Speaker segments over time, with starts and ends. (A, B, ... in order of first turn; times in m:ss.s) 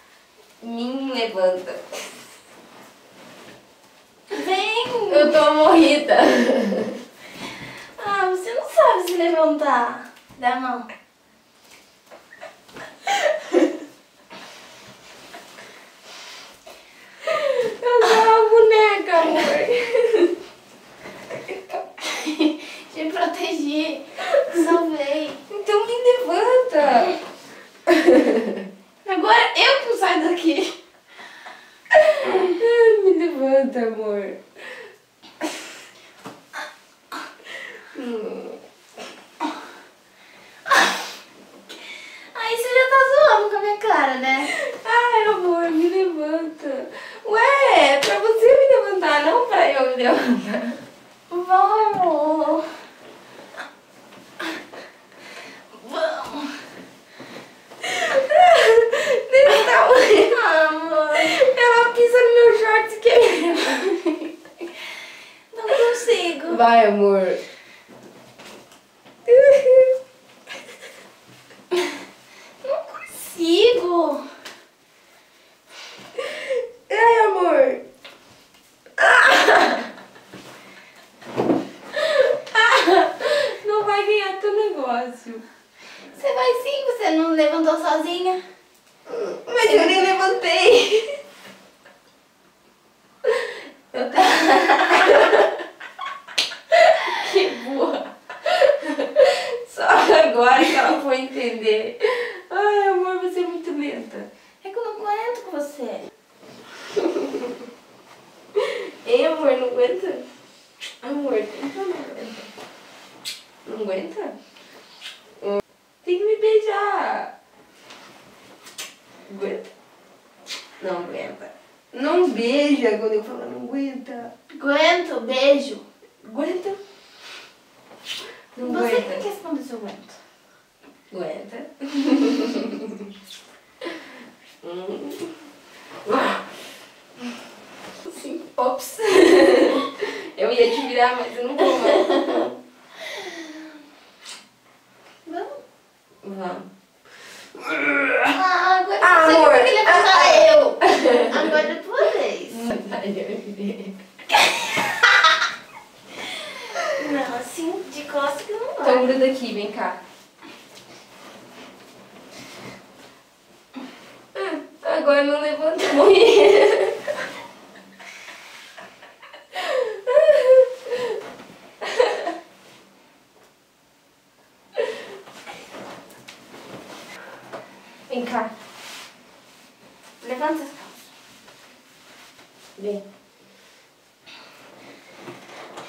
0:00.6-0:02.2 A
0:04.3-0:05.4 B
0:05.1-0:07.0 A
0:07.6-0:10.9 B
0:17.2-0:20.3 A
0:21.4-0:21.8 A
0:22.0-0:25.4 B
0:25.5-0:27.2 A
0:29.0-0:30.8 B
0:32.2-0:34.6 A
0:37.9-0:38.6 A
0:42.3-0:44.5 B
0:44.4-0:50.8 A
0:51.3-0:52.8 B
0:55.7-0:56.6 B
0:57.8-1:00.3 A
0:59.5-1:01.4 B
1:01.1-1:04.3 A
1:05.5-1:06.6 B
1:06.5-1:07.4 A
1:09.3-1:10.0 A
1:12.6-1:14.3 B
1:16.9-1:17.8 A
1:19.0-1:19.8 A
1:21.9-1:25.4 A
1:26.1-1:28.4 B
1:29.1-1:31.2 A
1:33.9-1:35.4 A
1:36.7-1:44.3 A
1:44.6-1:46.1 B
1:48.5-1:50.2 A
1:51.0-1:52.5 A
1:53.6-1:54.4 A
1:56.0-1:57.3 A
1:59.2-1:59.7 A
2:00.8-2:04.3 A
2:04.5-2:05.8 B
2:06.2-2:06.8 A
2:08.5-2:09.2 A
2:08.6-2:10.2 B
2:11.1-2:13.0 A
2:14.6-2:15.5 A
2:16.0-2:16.5 A
2:18.2-2:22.5 A
2:25.2-2:25.6 B
2:26.2-2:26.7 A
2:27.6-2:28.3 A
2:28.3-2:32.6 B
2:29.0-2:31.6 A
2:32.5-2:34.0 A
2:34.4-2:35.0 B
2:36.8-2:39.2 B
2:38.8-2:40.0 A
2:44.3-2:47.2 A
2:49.5-2:51.2 A
2:51.8-2:52.3 A
2:58.1-2:58.5 A
3:00.2-3:00.6 A
3:00.3-3:00.7 B
3:02.8-3:03.0 A